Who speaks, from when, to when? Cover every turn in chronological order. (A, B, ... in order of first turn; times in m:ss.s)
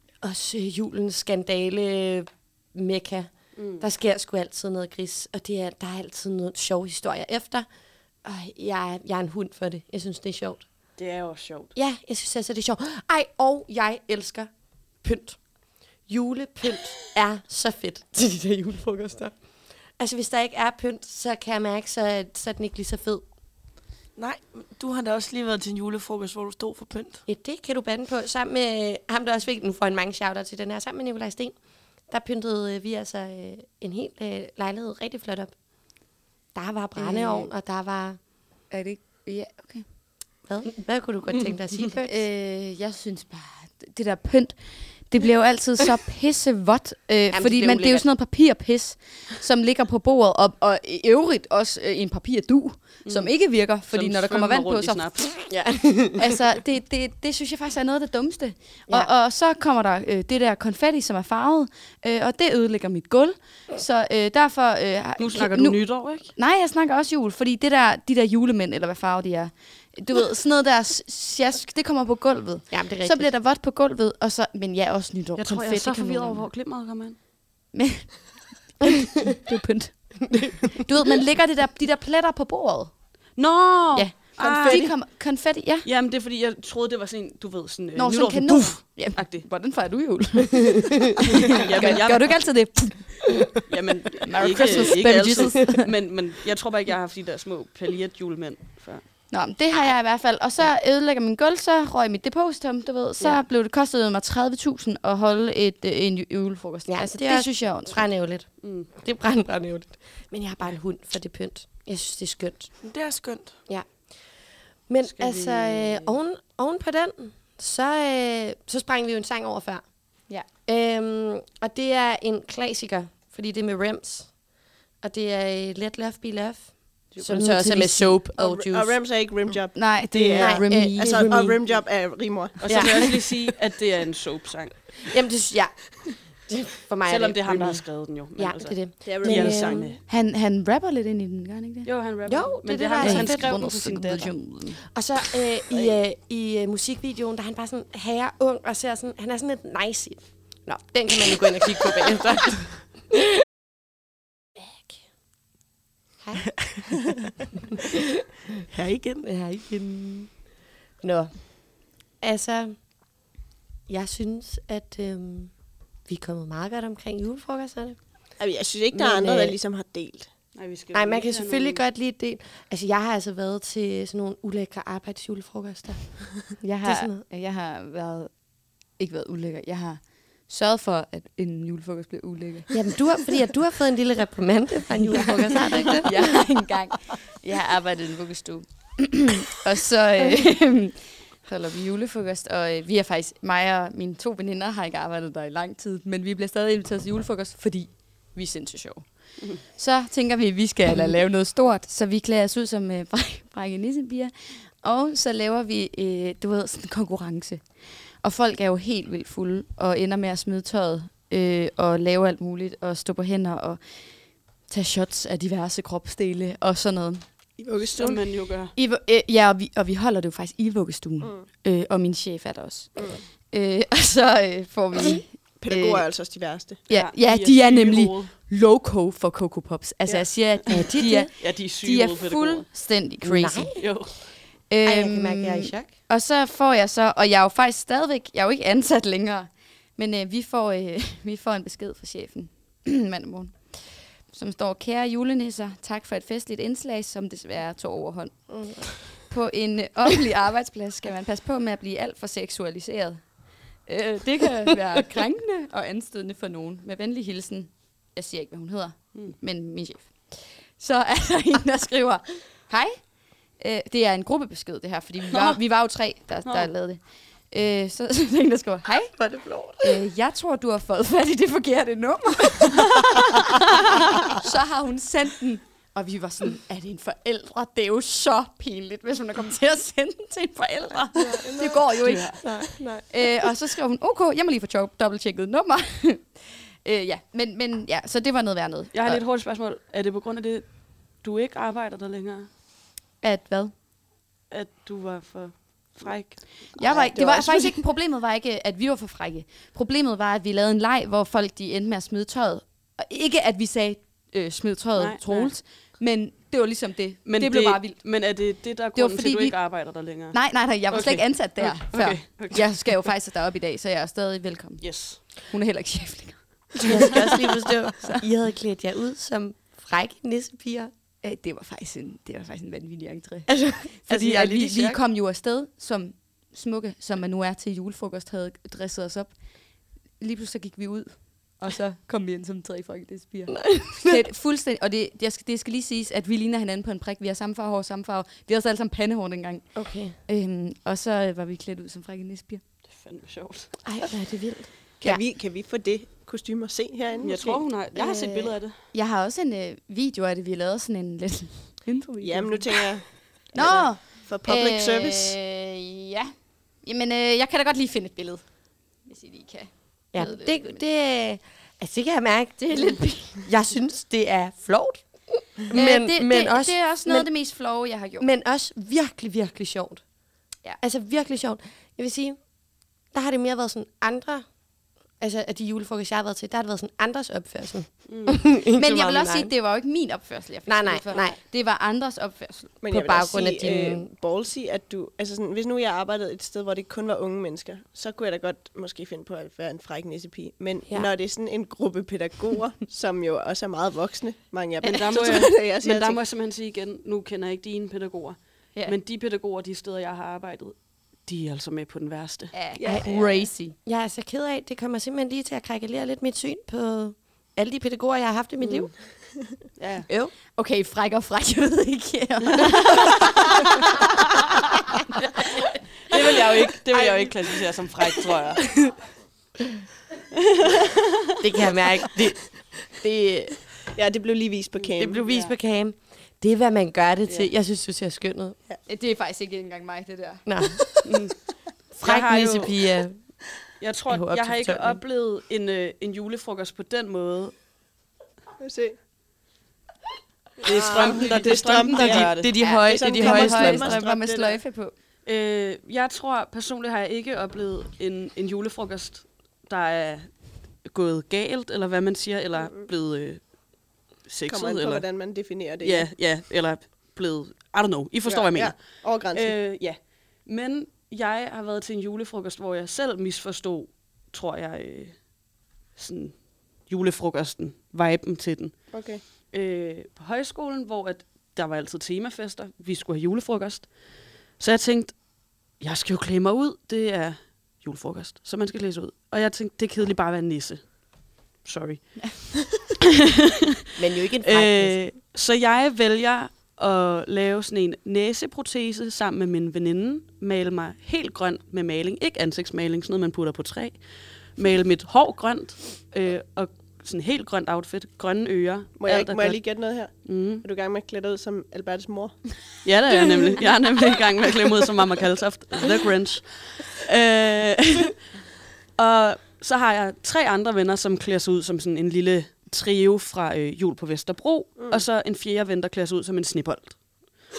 0:00.2-0:07.7 A
0:03.6-0:03.8 B
0:08.2-0:10.7 A
0:11.0-0:11.7 B
0:11.8-0:15.4 A
0:16.1-0:19.4 A
0:20.0-0:23.2 A
0:24.2-0:27.2 C
0:27.3-0:31.6 A
0:32.1-0:35.5 A
0:36.5-0:38.2 A
0:37.0-0:37.5 D
0:38.7-0:39.9 D
0:40.4-0:42.2 A
0:42.0-0:55.6 D
0:47.3-0:48.1 A
0:53.0-0:55.3 B
0:55.5-0:56.3 A
0:56.2-1:16.5 D
1:05.2-1:06.4 B
1:12.7-1:13.3 A
1:15.4-1:17.2 B
1:17.7-1:23.0 D
1:23.4-1:25.2 B
1:23.9-1:25.9 D
1:24.4-1:24.9 E
1:25.8-1:29.5 B
1:28.0-1:33.6 D
1:31.5-1:32.5 B
1:33.7-1:39.1 B
1:34.2-1:35.9 D
1:39.3-1:48.1 D
1:46.9-1:52.8 A
1:48.6-1:48.9 B
1:52.8-1:53.5 C
1:53.7-2:04.4 A
1:55.0-1:56.2 B
2:05.0-2:09.0 A
2:07.3-2:08.3 D
2:08.4-2:13.0 E
2:09.7-2:11.6 D
2:10.3-2:11.6 A
2:12.6-2:15.0 B
2:12.7-2:13.4 A
2:15.0-2:20.0 A
2:17.1-2:20.0 B
2:19.0-2:20.0 E
2:20.1-2:21.9 D
2:21.8-2:24.5 B
2:22.3-2:23.6 A
2:23.0-2:24.9 D
2:24.9-2:33.2 A
2:25.7-2:26.0 E
2:34.6-2:35.0 A
2:36.2-2:36.5 A
2:38.7-2:39.4 C
2:39.2-2:40.4 A
2:41.0-2:42.8 A
2:43.9-2:45.5 A
2:46.0-2:48.0 A
2:48.4-2:50.3 E
2:48.9-2:49.6 A
2:50.5-2:51.8 B
2:50.9-2:57.2 A
2:56.6-3:03.0 D
3:02.7-3:06.4 A
3:05.1-3:33.8 D
3:34.5-3:37.4 D
3:37.6-3:38.3 E
3:38.0-3:38.8 B
3:38.8-3:46.1 D
3:41.2-3:41.5 E
3:43.0-3:43.2 E
3:45.6-3:46.9 E
3:46.9-3:53.9 D
3:46.9-3:48.4 B
3:50.7-3:51.3 A
3:51.4-3:52.7 B
3:53.2-3:53.9 A
3:53.8-3:54.3 B
3:54.7-4:33.6 D
3:54.8-3:55.9 A
4:08.5-4:09.1 A
4:19.1-4:19.4 B
4:25.3-4:25.6 B
4:26.4-4:26.7 B
4:29.2-4:30.0 A
4:34.2-4:49.2 D
4:41.2-4:43.0 A
4:42.0-4:42.6 B
4:48.9-4:52.5 B
4:53.2-4:53.8 D
4:54.5-4:56.8 B
4:56.7-5:18.2 D
4:56.8-4:57.8 E
5:05.0-5:05.5 B
5:07.2-5:13.1 B
5:14.8-5:15.5 B
5:16.8-5:20.9 A
5:21.2-5:29.4 D
5:23.5-5:25.0 A
5:30.2-5:42.6 D
5:33.5-5:34.2 A
5:39.8-5:40.2 A
5:42.8-5:43.8 B
5:43.8-5:44.7 A
5:45.0-5:47.6 E
5:47.2-5:48.9 B
5:47.9-5:48.6 A
5:48.9-6:00.8 D
5:52.2-5:55.4 E
6:00.1-6:07.6 A
6:02.6-6:03.4 D
6:05.7-6:08.3 D
6:08.2-6:10.1 A
6:10.6-6:14.6 A
6:15.1-6:19.5 A
6:18.1-6:18.5 B
6:18.5-6:22.8 D
6:20.7-6:21.4 A
6:22.8-6:36.2 E
6:22.9-6:24.1 A
6:34.8-6:42.6 B
6:42.5-6:43.8 D
6:42.8-6:43.4 E
6:42.8-6:49.2 A
6:48.6-6:48.9 B
6:49.8-6:50.1 B
6:50.1-6:50.3 A
6:50.5-6:53.7 D
6:56.1-6:58.8 B
7:01.4-7:03.8 A
7:03.9-7:05.2 E
7:05.0-7:08.6 A
7:05.3-7:05.5 B
7:08.9-7:11.0 D
7:10.5-7:11.2 A
7:11.1-7:13.0 B
7:12.0-7:13.4 A
7:13.8-7:17.6 B
7:14.1-7:15.0 A
7:18.6-7:19.0 E
7:20.6-7:24.6 E
7:20.6-7:22.5 B
7:21.9-7:24.0 A
7:22.6-7:24.9 D
7:25.2-7:33.7 B
7:34.2-7:45.4 B
7:34.5-7:36.1 E
7:38.2-7:39.6 E
7:45.9-8:02.9 B
7:48.9-7:49.2 E
8:02.2-8:02.5 D
8:04.0-8:05.1 A
8:04.4-8:20.6 B
8:19.0-8:22.4 E
8:22.8-8:28.2 B
8:29.0-8:37.4 B
8:34.8-8:35.0 E